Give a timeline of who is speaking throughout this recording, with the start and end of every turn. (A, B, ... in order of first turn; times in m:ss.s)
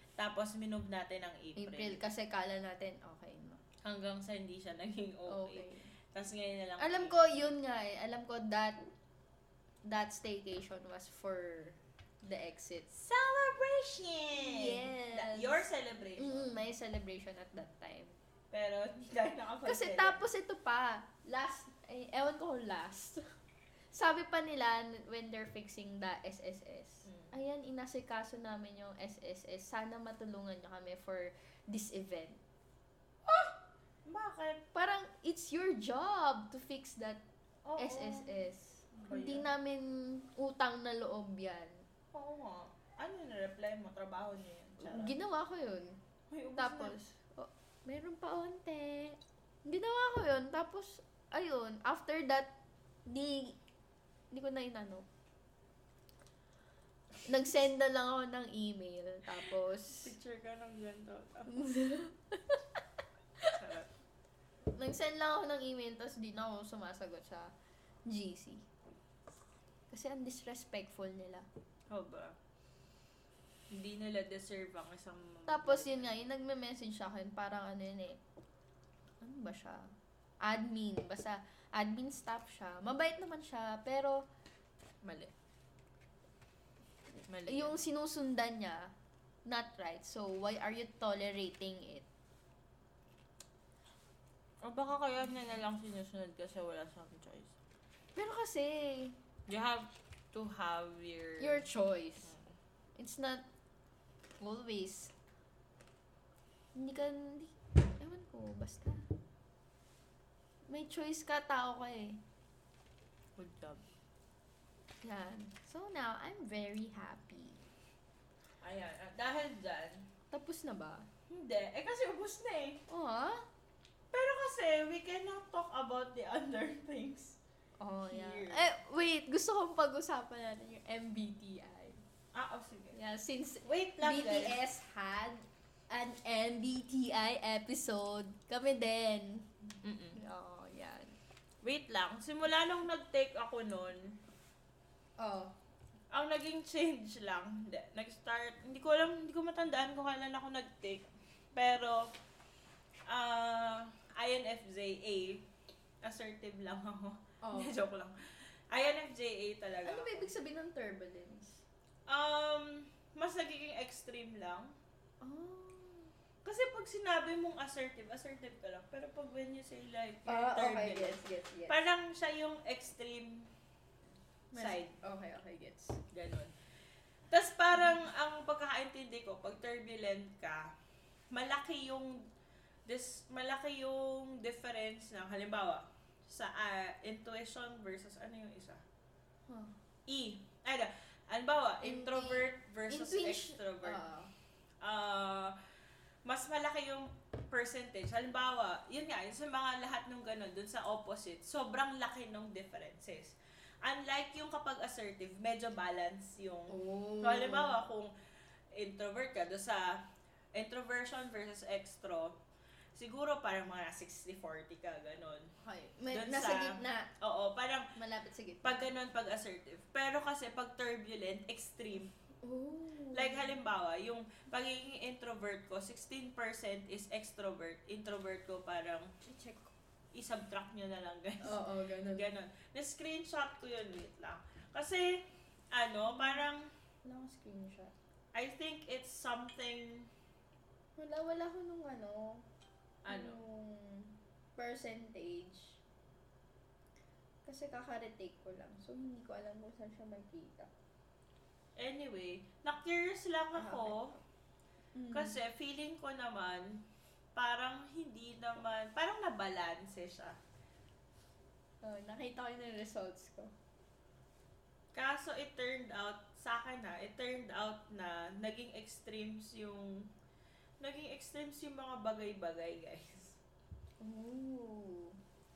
0:00.2-0:02.0 A
0:01.6-0:03.6 B
0:03.8-0:07.2 A
0:05.3-0:05.9 B
0:06.8-0:08.9 B
0:09.8-0:13.0 B
0:13.0-0:16.5 A
0:14.4-0:18.2 B
0:18.5-0:20.2 A
0:19.6-0:23.2 B
0:23.9-0:32.4 B
0:27.0-0:27.3 A
0:33.3-0:33.5 A
0:34.0-0:34.6 A
0:34.7-0:37.2 B
0:37.6-0:39.4 A
0:37.8-0:41.8 B
0:42.1-0:45.1 A
0:44.8-0:46.0 B
0:46.3-0:47.0 A
0:46.6-0:52.5 B
0:53.1-0:53.6 B
0:54.3-0:55.1 B
0:57.2-1:00.1 B
1:00.0-1:01.6 A
1:01.5-1:02.8 B
1:03.5-1:03.9 A
1:04.7-1:07.5 B
1:08.1-1:08.6 B
1:09.9-1:11.4 B
1:11.9-1:12.3 A
1:13.7-1:16.2 A
1:15.5-1:18.2 B
1:19.2-1:19.9 B
1:20.4-1:24.2 B
1:27.3-1:27.8 A
1:27.5-1:28.9 B
1:29.4-1:32.0 B
1:34.6-1:37.6 A
1:38.1-1:39.2 B
1:39.5-1:41.7 A
1:41.4-1:42.3 B
1:43.0-1:43.4 B
1:44.4-1:45.1 B
1:46.7-1:49.0 B
1:50.7-1:52.2 B
1:53.4-1:53.8 A
1:55.0-1:57.6 B
1:58.6-2:00.1 A
2:00.3-2:01.1 B
2:01.3-2:02.8 A
2:02.9-2:03.4 B
2:04.1-2:07.4 A
2:07.8-2:12.0 B
2:08.1-2:08.7 A
2:12.3-2:13.0 A
2:12.9-2:19.6 B
2:13.6-2:14.6 A
2:19.8-2:20.2 A
2:20.1-2:21.1 B
2:21.6-2:24.2 A
2:25.2-2:25.5 B
2:26.1-2:32.0 A
2:33.1-2:35.4 A
2:36.0-2:40.3 A
2:37.4-2:37.8 B
2:39.8-2:41.6 B
2:42.1-2:44.7 A
2:45.2-2:46.1 B
2:46.4-2:53.5 A
2:50.3-2:51.8 B
2:54.5-2:56.0 B
2:54.6-2:55.0 A
2:56.1-2:56.5 A
2:57.3-3:00.7 A
3:01.3-3:02.2 A
3:02.9-3:08.8 A
3:09.5-3:09.7 B
3:10.1-3:14.0 A
3:11.8-3:14.3 B
3:14.8-3:15.6 A
3:16.2-3:28.1 A
3:26.7-3:27.7 B
3:28.7-3:30.0 A
3:30.5-3:32.4 A
3:32.9-3:35.5 A
3:35.6-3:37.1 B
3:36.1-3:37.9 A
3:37.9-3:38.8 B
3:38.6-3:42.1 A
3:42.4-3:43.5 B
3:43.1-3:49.1 A
3:49.2-3:49.7 B
3:50.1-3:56.7 A
3:51.4-3:52.3 B
3:56.1-3:56.4 B
3:57.0-3:57.9 B
3:58.3-4:00.1 A
4:01.0-4:02.4 B
4:03.0-4:03.4 A
4:03.1-4:05.8 B
4:07.4-4:10.7 B
4:11.8-4:14.1 A
4:13.5-4:14.2 B
4:14.9-4:15.4 B
4:15.1-4:16.8 A
4:17.3-4:20.4 A
4:21.8-4:23.5 B
4:24.9-4:30.0 A
4:30.8-4:33.4 A
4:34.0-4:35.2 B